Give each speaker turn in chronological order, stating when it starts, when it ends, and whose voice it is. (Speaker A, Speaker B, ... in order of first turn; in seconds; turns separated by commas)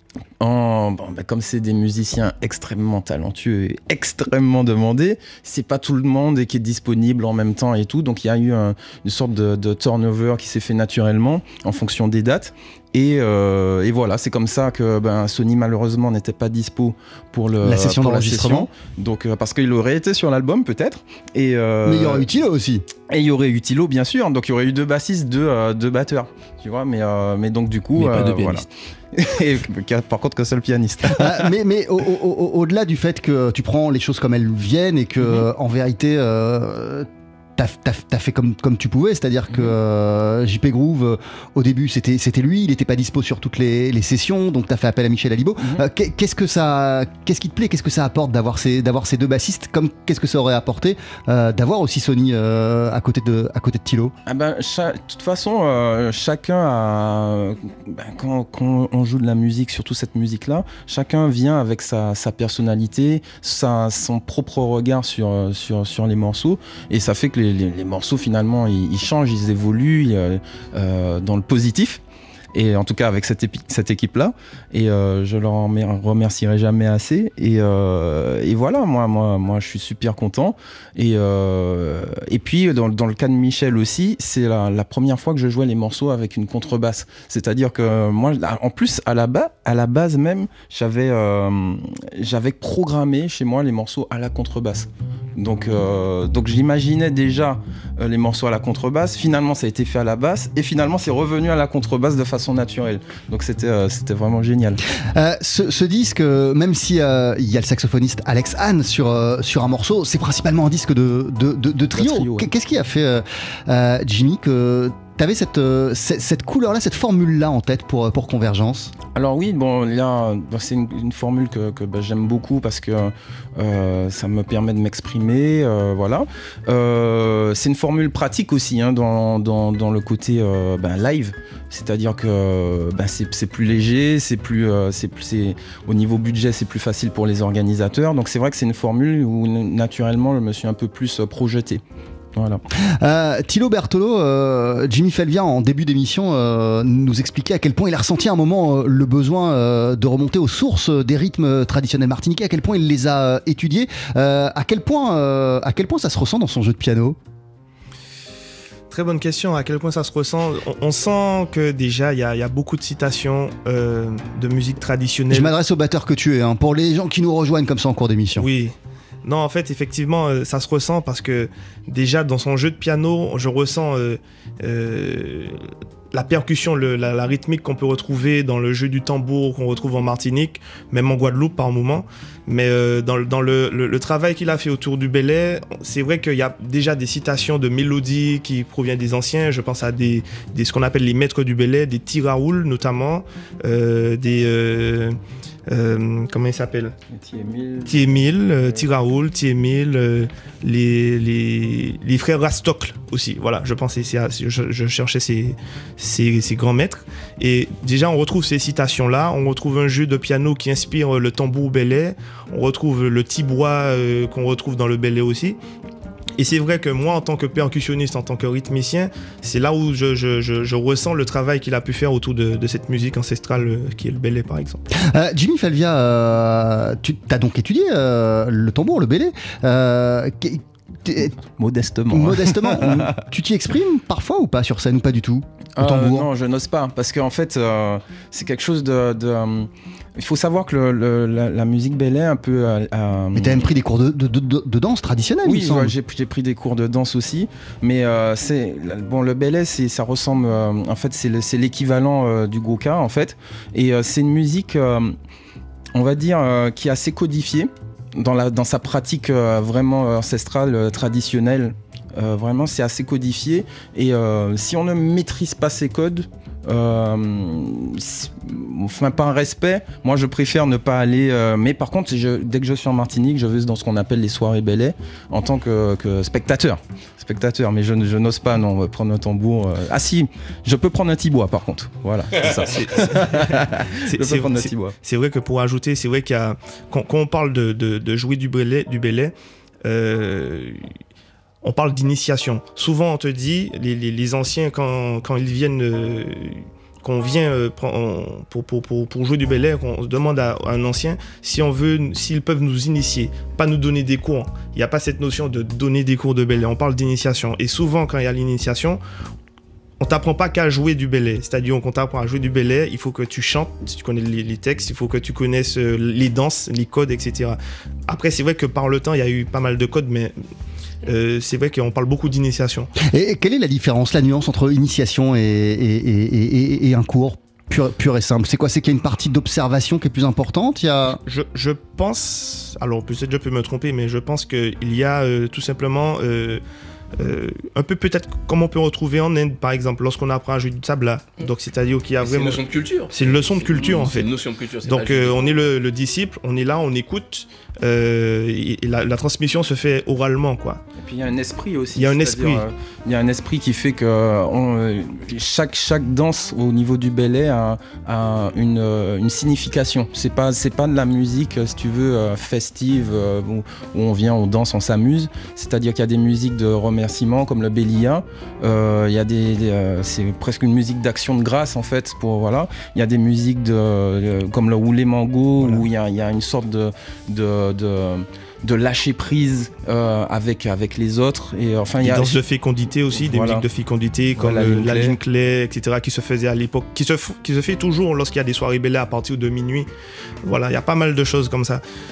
Speaker A: 0.4-22.2, Speaker B: 17.6-18.7, Speaker B: 21.8-22.9, Speaker A: 23.1-31.4, Speaker C: 27.9-28.6, Speaker B: 31.1-54.1, Speaker A: 54.2-72.0, Speaker A: 72.5-104.8, Speaker B: 105.0-118.9, Speaker A: 112.0-112.5, Speaker A: 119.1-141.8, Speaker A: 142.3-142.6, Speaker B: 142.8-157.2, Speaker D: 158.9-165.5, Speaker B: 165.3-168.5, Speaker D: 168.4-175.6, Speaker D: 176.1-195.2, Speaker D: 195.7-196.9, Speaker A: 197.1-198.9, Speaker D: 197.8-215.6, Speaker D: 216.4-224.8, Speaker B: 224.9-231.3, Speaker A: 231.6-233.1, Speaker B: 232.1-236.3, Speaker A: 235.8-243.7, Speaker B: 243.3-245.9, Speaker A: 245.4-255.1, Speaker A: 255.9-284.9, Speaker D: 282.5-289.3, Speaker D: 289.8-290.8, Speaker D: 291.6-309.0, Speaker D: 310.0-320.3, Speaker D: 321.0-322.9, Speaker B: 323.0-331.2, Speaker D: 331.2-336.6, Speaker D: 337.2-344.3, Speaker C: 342.2-345.6, Speaker A: 343.7-344.0, Speaker D: 344.8-350.8, Speaker A: 351.0-382.4, Speaker D: 351.9-352.6, Speaker D: 375.6-375.8, Speaker D: 382.0-389.9, Speaker A: 383.1-383.6, Speaker A: 384.4-385.2, Speaker D: 390.4-391.8